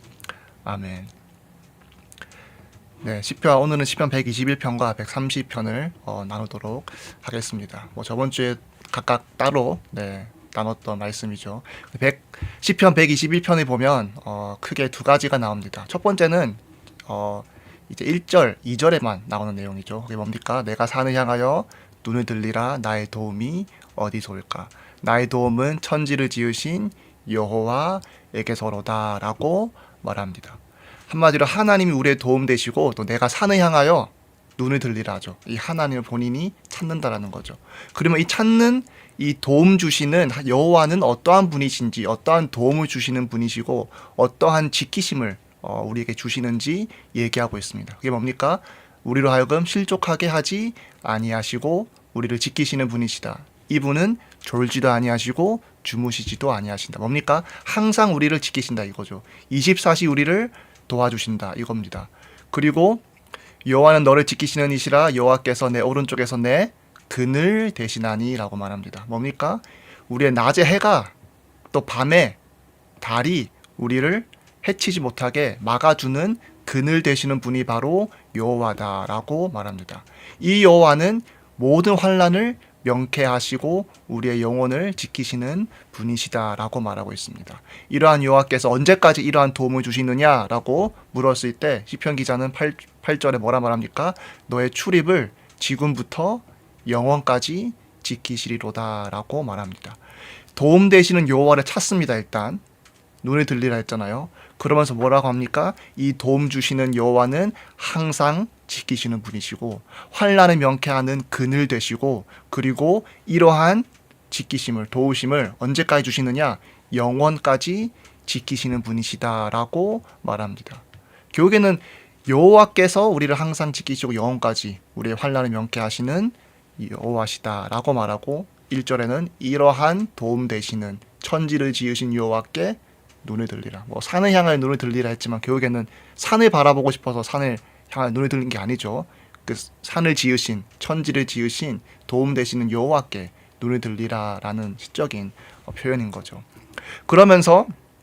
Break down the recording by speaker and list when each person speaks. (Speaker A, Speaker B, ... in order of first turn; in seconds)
Speaker A: 0.7-1.1, 3.0-63.0, 63.6-71.1, 71.7-72.4, 73.0-100.0, 100.6-102.6, 103.2-146.5, 147.1-147.7